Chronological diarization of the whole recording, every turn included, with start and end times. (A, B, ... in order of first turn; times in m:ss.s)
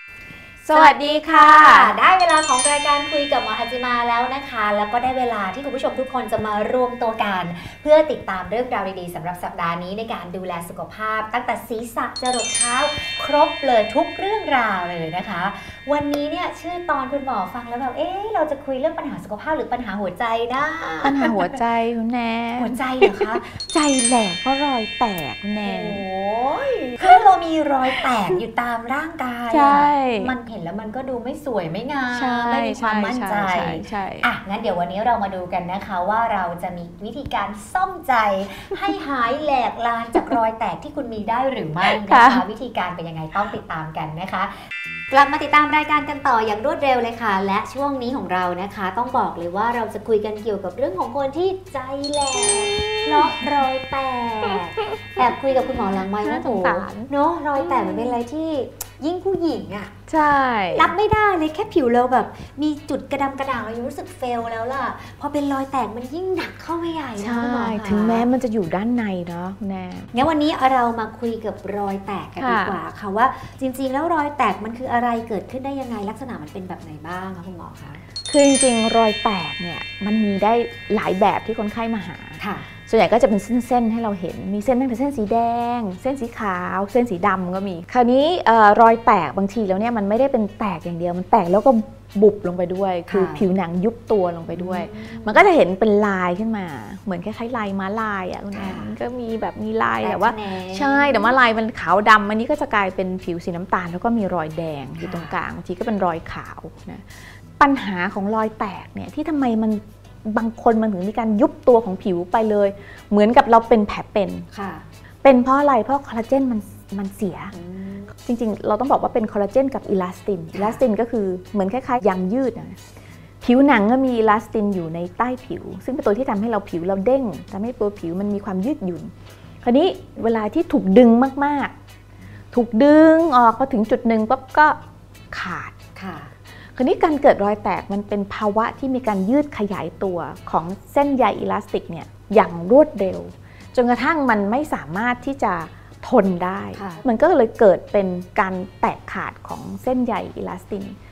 0:00.6-0:01.9 A
0:00.7-0:21.6 B
0:21.0-0:26.0 A
0:22.6-0:23.6 B
0:25.6-0:44.5 B
0:26.8-0:27.3 A
0:27.9-0:28.3 A
0:29.5-0:30.3 A
0:32.1-0:34.3 A
0:41.8-0:42.4 A
0:45.1-0:59.9 B
0:52.7-0:53.6 A
0:54.5-0:55.3 A
0:56.0-0:58.2 A
1:00.1-1:00.9 A
1:00.7-1:08.3 B
1:07.2-1:10.1 A
1:10.1-1:18.0 B
1:12.4-1:12.8 A
1:18.3-1:47.1 A
1:22.4-1:22.7 B
1:33.1-1:33.4 B
1:34.5-1:35.4 B
1:38.5-1:38.9 B
1:40.0-1:41.4 B
1:45.0-1:45.4 B
1:47.6-1:54.4 A
1:54.5-1:54.8 B
1:55.2-1:57.5 A
1:57.5-1:58.1 B
1:58.2-2:02.8 A
2:00.5-2:00.8 B
2:03.4-2:09.1 A
2:09.6-2:11.7 A
2:12.5-2:14.8 A
2:15.3-2:15.8 A
2:16.0-2:16.3 B
2:16.8-2:30.9 A
2:26.7-2:27.0 B